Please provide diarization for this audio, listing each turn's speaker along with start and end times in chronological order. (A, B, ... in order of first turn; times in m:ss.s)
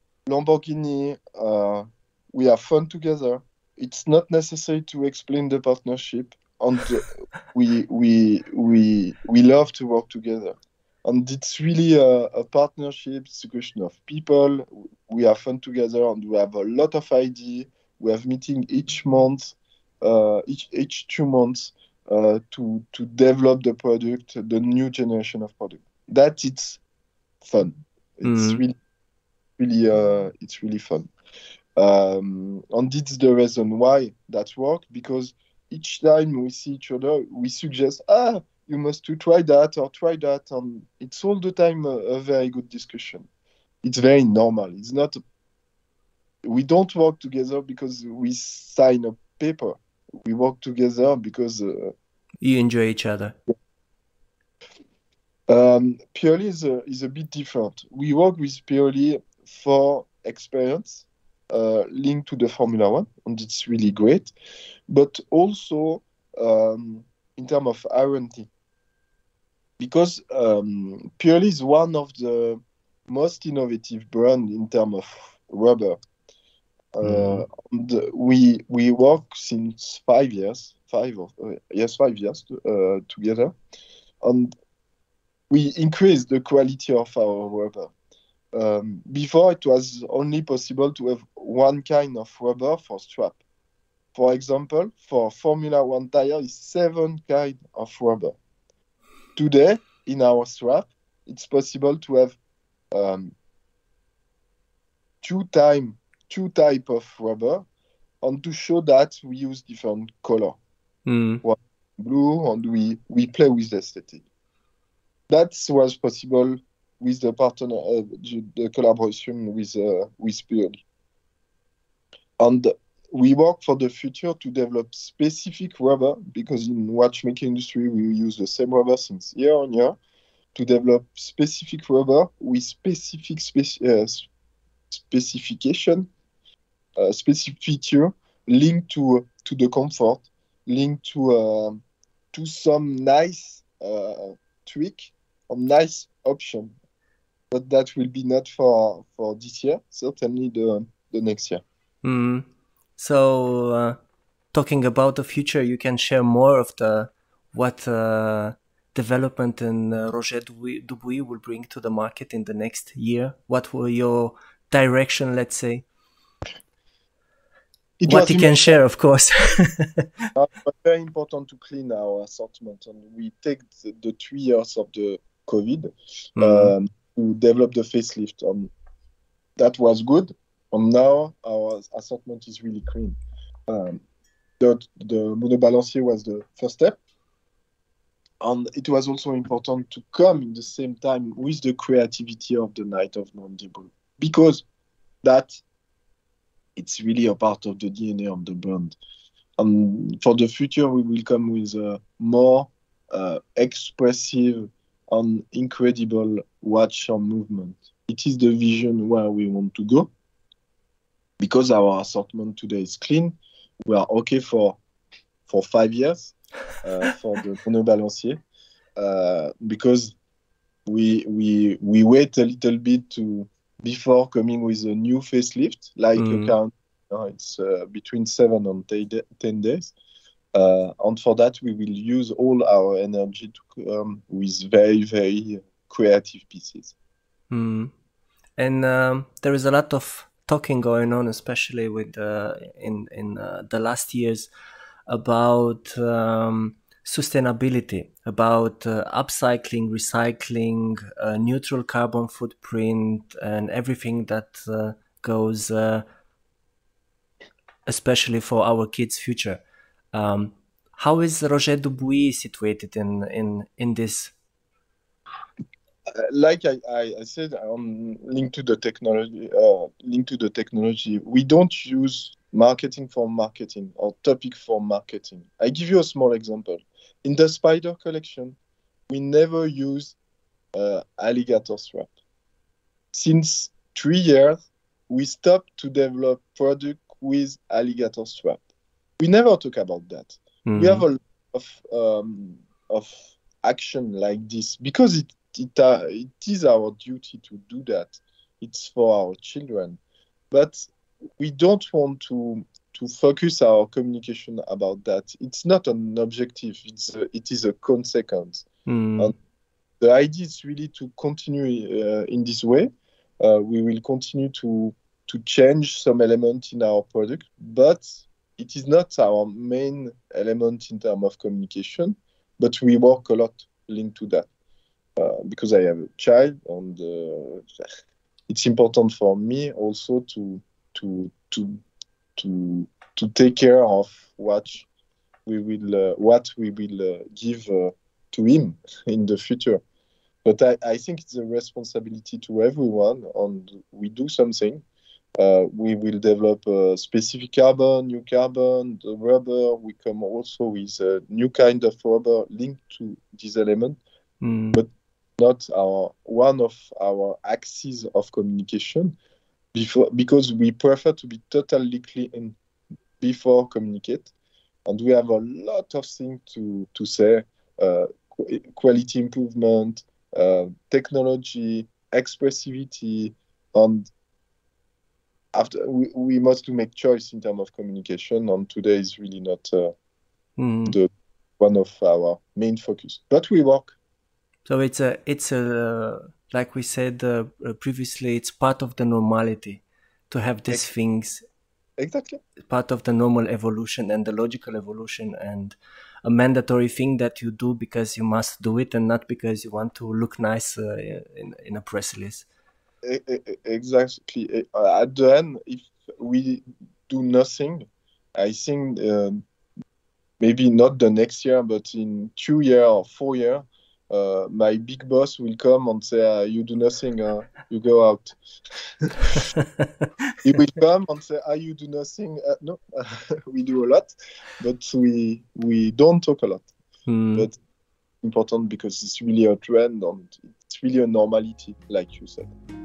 0:00.2-0:26.8 A
0:27.4-0:28.7 A
0:28.2-0:28.6 B
0:29.6-0:31.1 A
0:31.8-0:43.3 A
0:43.8-0:45.2 A
0:46.4-0:51.9 A
0:52.4-0:53.4 B
0:55.5-1:04.3 A
1:04.9-1:08.5 A
1:09.8-1:16.0 A
1:16.9-1:23.5 A
1:17.0-1:17.4 B
1:24.2-1:24.5 A
1:25.5-1:27.9 A
1:28.5-1:33.4 A
1:34.1-1:38.4 A
1:39.4-1:42.4 A
1:42.9-1:43.3 A
1:45.2-1:47.6 A
1:48.2-1:50.6 A
1:51.0-1:51.4 B
1:51.4-1:54.2 A
1:55.3-2:00.8 A
2:02.4-2:10.0 A
2:10.5-2:14.3 A
2:14.9-2:16.1 A
2:17.0-2:21.8 A
2:22.3-2:26.7 A
2:27.5-2:31.6 A
2:32.0-2:32.4 B
2:33.0-2:34.0 B
2:34.5-2:45.8 B
2:48.0-2:48.8 A
2:48.1-2:50.1 B
2:50.3-2:58.7 A
2:56.4-2:56.7 B
2:59.6-3:04.0 A
3:04.6-3:07.0 A
3:08.4-3:14.6 A
3:15.2-3:15.6 A
3:16.8-3:19.0 A
3:19.6-3:30.1 A
3:31.4-3:34.8 A
3:35.5-3:38.4 A
3:39.0-3:40.2 A
3:40.8-3:49.9 A
3:46.2-3:46.5 B
3:50.5-3:56.9 A
3:57.5-3:57.9 B
3:58.6-4:04.5 B
4:05.1-4:16.0 B
4:17.8-4:19.6 B
4:20.1-4:24.3 B
4:26.2-4:38.6 A
4:39.1-4:40.2 A
4:40.7-4:42.1 A
4:43.1-4:48.6 A
4:49.2-5:00.0 A
4:50.6-4:51.0 B
5:00.5-5:00.9 A
5:01.4-5:08.6 A
5:08.8-5:09.3 B
5:10.0-5:12.9 A
5:13.4-5:24.5 A
5:25.2-5:27.6 A
5:28.5-5:31.8 A
5:32.4-5:34.9 A
5:35.4-5:39.8 A
5:40.4-5:44.8 A
5:45.4-5:54.0 A
5:54.4-5:54.8 B
5:54.7-5:59.2 A
5:59.7-6:02.6 A
6:03.2-6:04.3 A
6:04.8-6:14.1 A
6:15.5-6:19.9 A
6:20.6-6:21.0 B
6:20.9-6:24.0 A
6:24.6-6:31.4 B
6:32.0-6:32.4 A
6:32.7-6:42.4 B
6:43.0-6:49.4 A
6:50.4-6:58.4 A
6:59.0-6:59.4 A
6:59.6-6:59.9 B
7:00.4-7:06.7 A
7:07.1-7:07.5 B
7:08.2-7:12.5 A